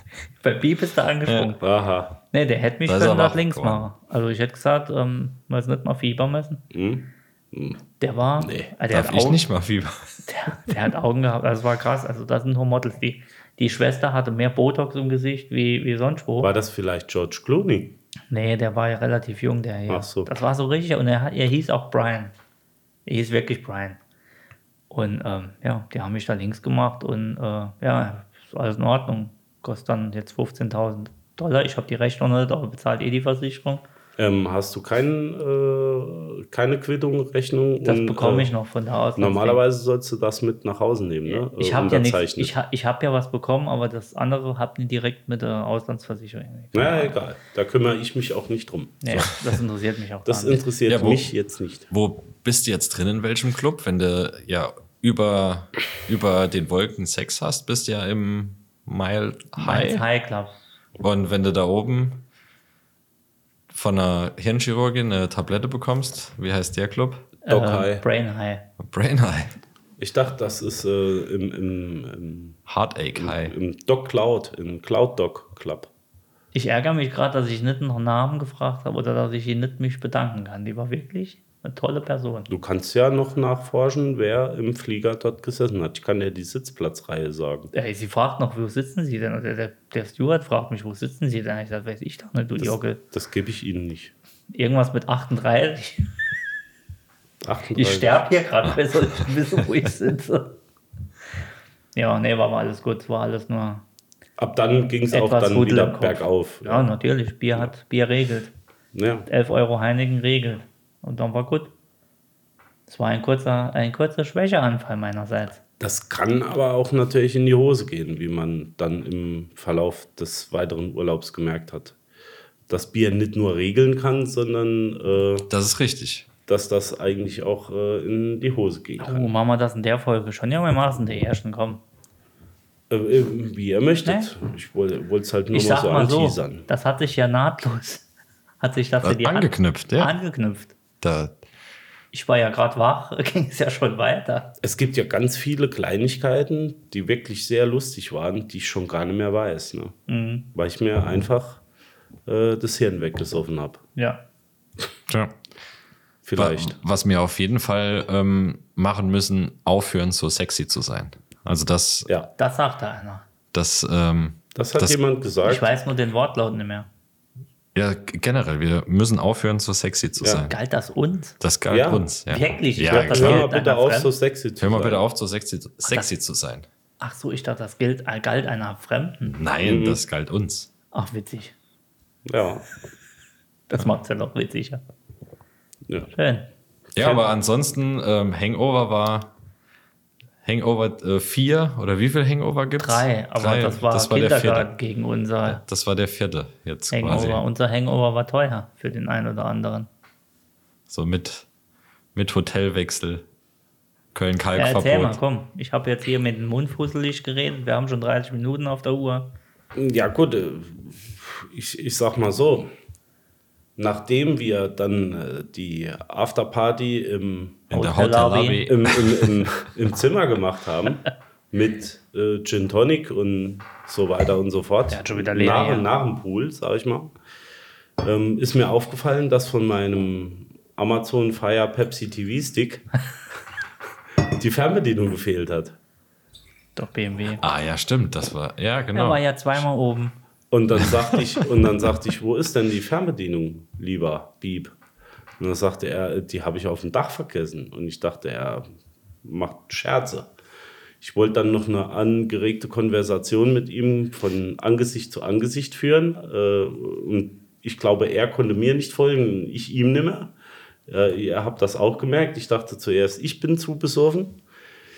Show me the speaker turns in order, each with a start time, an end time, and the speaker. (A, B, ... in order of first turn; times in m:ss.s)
0:00.4-0:01.6 A
0:01.3-0:01.6 B
0:01.6-0:02.2 C
0:02.3-0:06.6 A
0:02.9-0:03.9 B
0:06.7-0:07.8 C
0:08.0-0:09.4 A
0:08.4-0:08.7 C
0:08.9-0:10.2 B
0:10.3-0:16.5 A
0:16.4-0:18.0 C
0:18.3-0:22.3 A
0:19.9-0:20.3 C
0:23.1-0:24.0 A
0:24.9-0:33.8 A
0:34.2-0:38.5 C
0:37.8-0:39.6 A
0:39.2-0:42.5 C
0:41.3-0:47.2 A
0:46.7-0:49.3 C
0:49.0-0:50.6 A
0:50.3-0:51.9 C
0:50.9-0:51.3 B
0:51.9-1:00.0 B
0:59.6-1:00.6 A
1:01.0-1:02.2 B
1:03.7-1:07.3 B
1:07.4-1:08.6 A
1:07.5-1:08.0 C
1:08.8-1:09.5 B
1:10.0-1:12.6 C
1:12.7-1:13.6 B
1:13.2-1:15.9 C
1:16.5-1:22.5 A
1:22.5-1:27.7 C
1:27.7-1:33.0 A
1:32.6-1:34.1 C
1:34.5-1:36.1 A
1:37.4-1:38.2 C
1:37.8-1:40.6 A
1:42.0-1:43.8 A
1:44.4-1:46.9 C
1:45.1-1:48.5 A
1:48.9-1:49.3 C
1:49.3-1:51.7 A
1:52.9-1:55.6 A
1:55.8-2:02.0 C
2:02.7-2:05.5 C
2:05.5-2:06.3 B
2:06.5-2:09.3 C
2:09.0-2:11.8 A
2:12.9-2:16.7 C
2:14.0-2:14.3 A
2:15.5-2:18.1 A
2:18.6-2:20.8 A
2:19.0-2:20.2 B
2:21.0-2:21.4 B
2:22.1-2:24.5 A
2:24.6-2:30.0 C
2:30.1-2:30.5 A
2:30.5-2:31.6 C
2:32.3-2:33.8 C
2:35.1-2:35.4 B
2:36.2-2:36.8 C
2:36.4-2:42.1 B
2:42.4-2:43.2 A
2:43.5-2:45.0 B
2:44.6-2:45.7 C
2:45.4-2:46.9 A
2:47.7-2:50.6 B
2:50.2-2:50.5 C
2:50.5-2:51.4 A
2:51.4-2:53.4 B
2:51.7-2:52.1 C
2:52.3-2:54.1 A
2:52.8-2:55.0 C
2:54.6-2:56.7 B
2:57.0-2:59.4 A
2:59.2-3:00.7 B
2:59.6-3:00.0 C
3:00.9-3:01.6 A
3:02.2-3:02.7 C
3:03.7-3:04.8 A
3:05.9-3:06.1 C
3:06.1-3:06.5 A
3:07.0-3:07.3 C
3:07.0-3:09.3 B
3:10.4-3:14.7 B
3:12.8-3:15.6 A
3:15.5-3:17.4 B
3:16.9-3:19.9 A
3:20.9-3:21.5 B
3:22.1-3:23.2 B
3:24.1-3:25.2 B
3:24.6-3:29.3 A
3:29.8-3:32.7 C
3:33.8-3:37.7 C
3:37.7-3:39.4 B
3:37.7-3:38.7 A
3:38.7-3:47.1 C
3:44.9-3:45.9 A
3:48.0-3:52.9 C
3:54.3-3:55.8 C
3:56.8-3:57.4 A
3:57.4-3:59.2 B
3:58.9-4:00.2 A
4:00.5-4:04.8 C
4:00.8-4:01.4 B
4:05.4-4:08.7 C
4:09.2-4:10.3 C
4:11.0-4:20.3 C
4:20.9-4:24.4 C